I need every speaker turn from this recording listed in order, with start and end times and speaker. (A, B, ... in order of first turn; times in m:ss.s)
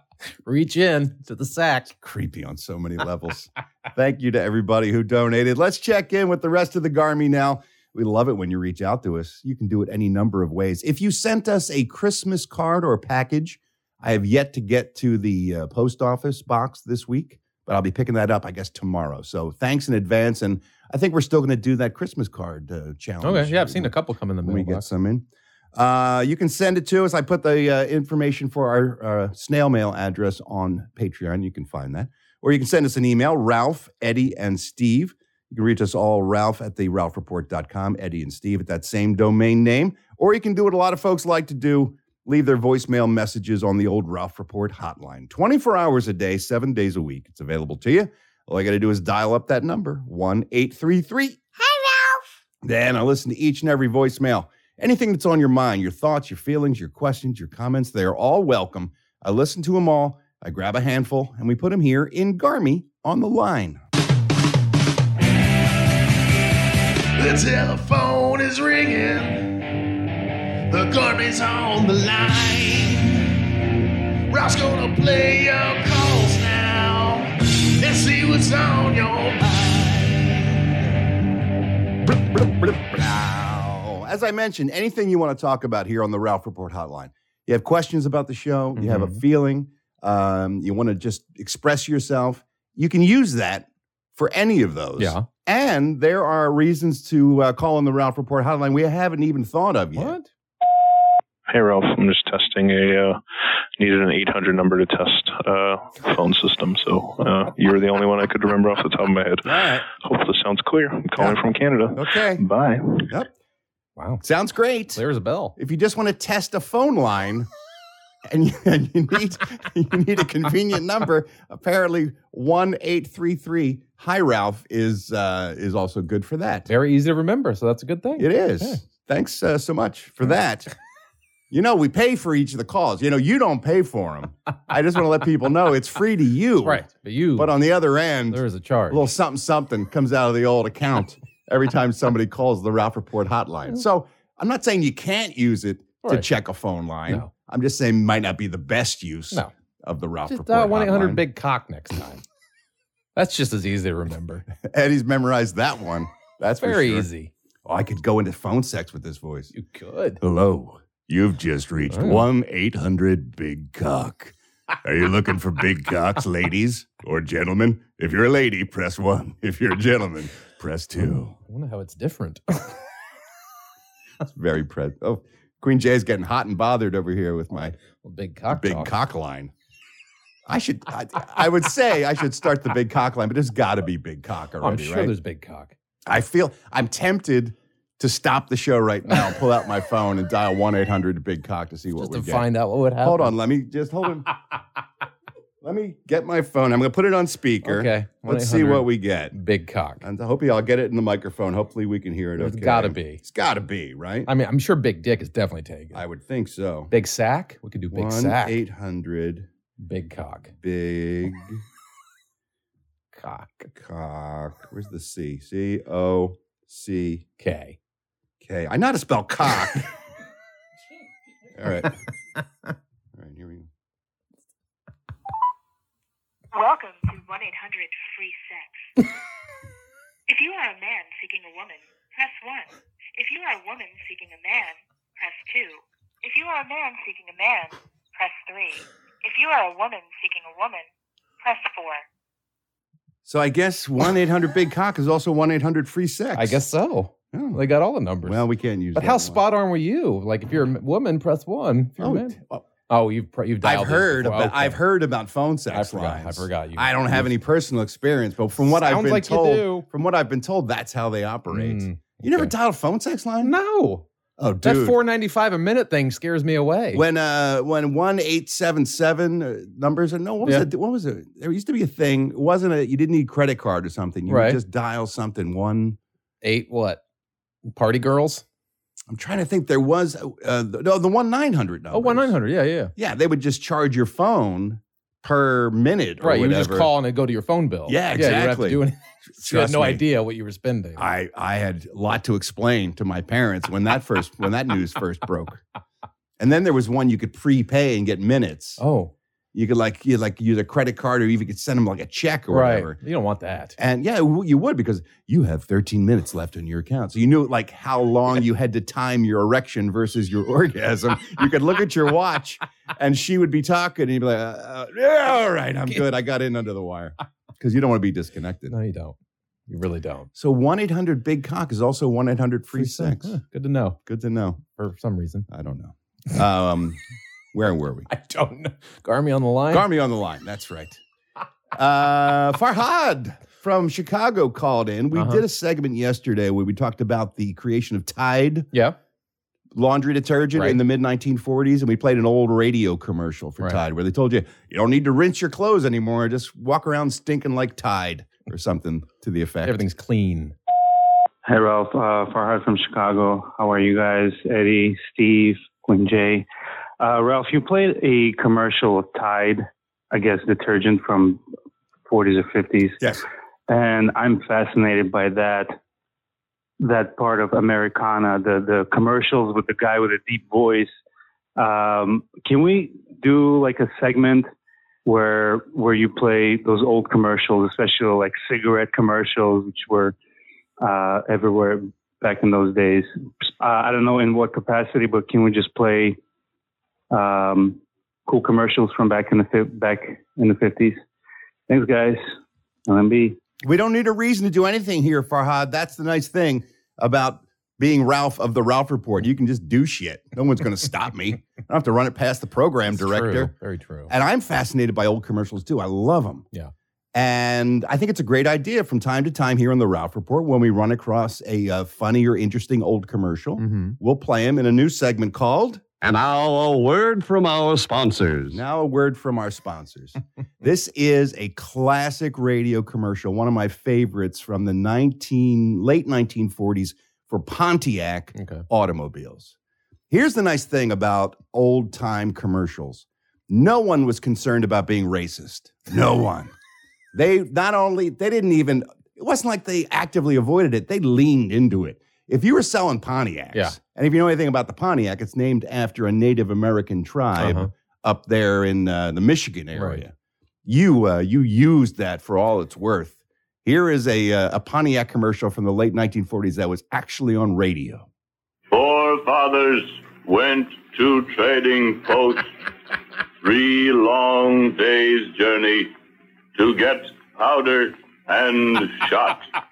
0:00.4-0:01.9 A
0:02.0-1:03.8 B
0:23.2-0:24.9 A
1:07.2-1:09.4 C
1:10.7-1:13.3 C
1:14.3-1:20.7 C
1:22.1-1:40.1 B
1:28.7-1:29.2 A
1:35.0-1:35.2 A
1:40.0-1:40.3 A
1:41.5-1:43.2 D
1:43.8-1:53.1 D
1:49.4-1:49.8 B
1:51.9-1:52.4 B
1:54.0-1:54.2 A
1:54.2-1:55.0 B
1:54.9-1:55.5 A
1:55.6-1:57.5 B
1:58.3-2:06.7 B
2:06.7-2:08.8 A
2:08.2-2:10.7 B
2:11.5-2:16.8 B
2:16.6-2:17.5 A
2:17.4-2:31.2 B
2:18.3-2:19.1 A
2:26.0-2:26.3 A
2:30.3-2:32.2 A
2:33.1-2:34.4 A
2:34.5-2:37.1 B
2:36.6-2:37.3 A
2:37.6-2:39.5 B
2:39.5-2:40.2 A
2:40.2-2:51.3 B
2:41.9-2:42.3 A
2:51.4-2:52.8 A
2:54.2-2:57.8 B
2:57.5-2:58.9 A
2:58.5-2:59.5 B
3:00.5-3:05.1 B
3:04.6-3:05.7 A
3:06.1-3:12.5 B
3:11.9-3:13.4 A
3:13.0-3:14.3 B
3:15.6-3:19.3 B
3:17.6-3:20.0 A
3:20.0-3:24.3 B
3:22.4-3:23.2 A
3:24.2-3:26.0 A
3:25.9-3:26.9 B
3:26.9-3:28.6 A
3:27.9-3:29.5 B
3:29.8-3:30.5 A
3:30.6-3:31.6 B
3:33.1-3:33.7 A
3:33.7-3:37.2 B
3:37.4-3:37.8 A
3:38.4-3:39.9 B
3:41.6-3:41.9 B
3:43.1-3:43.7 B
3:46.5-3:48.9 E
3:50.3-4:00.9 E
4:01.4-4:02.0 E
4:03.2-4:06.6 B
4:06.3-4:08.4 A
4:07.3-4:07.6 B
4:08.2-4:09.4 B
4:08.9-4:12.4 A
4:12.0-4:12.6 B
4:12.9-4:14.8 A
4:13.6-4:23.5 B
4:15.7-4:17.3 A
4:18.6-4:19.8 A
4:21.5-4:22.5 A
4:23.4-4:24.0 A
4:24.4-4:25.0 B
4:24.6-4:27.0 A
4:26.9-4:36.0 B
4:34.3-4:34.6 A
4:36.4-4:37.0 A
4:37.6-4:38.4 A
4:39.1-4:42.4 B
4:41.9-4:42.9 A
4:43.0-4:46.9 B
4:46.2-4:51.1 A
4:47.9-4:50.0 B
4:51.0-4:55.6 B
4:56.4-4:58.8 B
4:58.8-4:59.1 A
4:59.5-5:03.0 B
5:02.5-5:03.8 A
5:03.8-5:18.7 B
5:18.7-5:19.2 A
5:19.7-5:20.3 A
5:20.3-5:23.4 B
5:22.7-5:24.0 A
5:24.0-5:24.6 B
5:24.7-5:25.4 A
5:25.5-5:27.0 B
5:27.5-5:28.1 B
5:28.1-5:29.8 A
5:29.7-5:31.0 B
5:31.7-5:38.7 B
5:35.1-5:35.4 A
5:38.7-5:39.0 A
5:39.7-5:49.8 B
5:40.5-5:40.8 A
5:49.6-5:50.5 A
5:51.4-5:56.4 F
5:57.0-6:01.4 F
6:02.1-6:03.0 F
6:03.7-6:05.7 F
6:06.8-6:10.9 F
6:11.6-6:14.5 F
6:15.0-6:20.2 F
6:20.8-6:26.2 F
6:27.1-6:31.0 F
6:31.7-6:32.3 F
6:32.9-6:33.4 F
6:33.6-6:43.5 B
6:42.9-6:44.1 A
6:44.1-6:46.4 B
6:47.1-6:55.8 B
6:53.6-6:54.0 A
6:56.0-6:58.6 G
6:58.5-7:09.5 B
7:08.3-7:08.6 A
7:10.1-7:16.5 B
7:17.1-7:30.1 B
7:27.4-7:27.7 A
7:29.7-7:30.0 A
7:30.6-7:38.1 B
7:38.7-7:42.5 H
7:43.4-7:45.9 H
7:46.5-7:49.4 H